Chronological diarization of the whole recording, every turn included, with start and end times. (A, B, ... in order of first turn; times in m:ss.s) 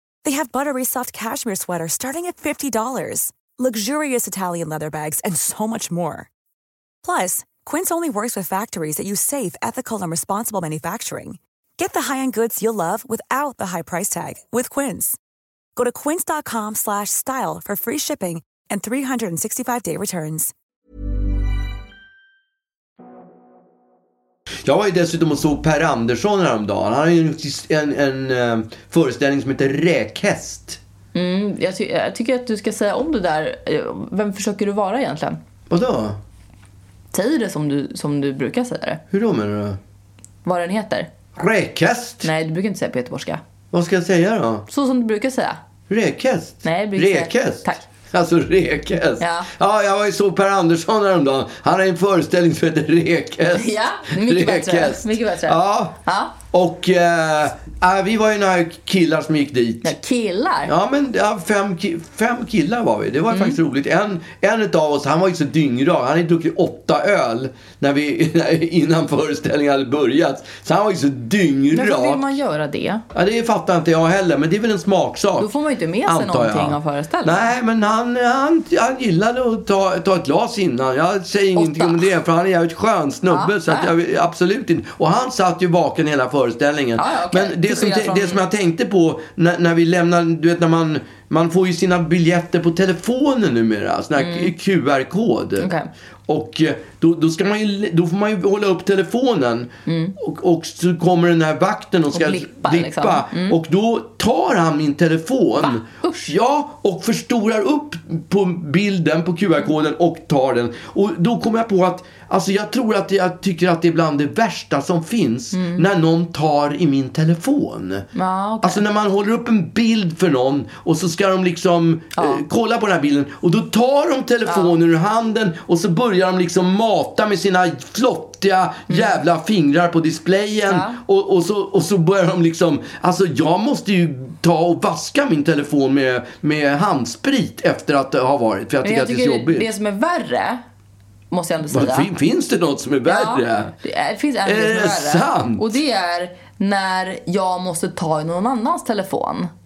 0:00.2-0:06.3 A
0:07.0-0:15.2 A
0:15.8-0:20.5 A
0:24.6-0:30.8 B
0:31.1-0:35.4 C
0:35.7-0:36.2 B
0:37.1-0:39.0 C
0:39.1-0:39.8 B
0:40.4-0:41.1 C
0:41.4-0:42.3 B
0:42.2-0:43.4 C
0:43.7-0:44.6 B
0:44.7-0:45.6 C
0:45.9-0:56.0 B
0:46.6-0:47.9 C
0:49.2-0:49.5 C
0:53.5-0:56.3 C
0:56.5-0:59.9 B
0:59.8-1:00.7 C
1:00.6-1:12.3 B
1:03.3-1:03.6 C
1:11.7-1:13.0 C
1:13.1-1:15.5 B
1:15.4-1:17.5 C
1:16.0-1:35.7 B
1:21.6-1:22.1 C
1:23.3-1:23.9 C
1:27.0-1:28.4 C
1:34.2-1:34.5 C
1:35.6-1:35.9 C
1:36.3-1:58.1 B
1:39.9-1:40.1 C
1:42.1-1:43.6 C
1:45.6-1:46.3 C
1:55.5-1:55.8 C
1:58.1-1:58.8 C
1:58.6-2:19.7 B
2:02.2-2:02.4 C
2:04.4-2:04.8 C
2:08.9-2:09.2 C
2:10.7-2:11.0 C
2:18.8-2:20.6 C
2:21.3-2:22.1 C
2:21.7-2:23.8 B
2:23.0-2:29.5 C
2:24.4-2:25.7 B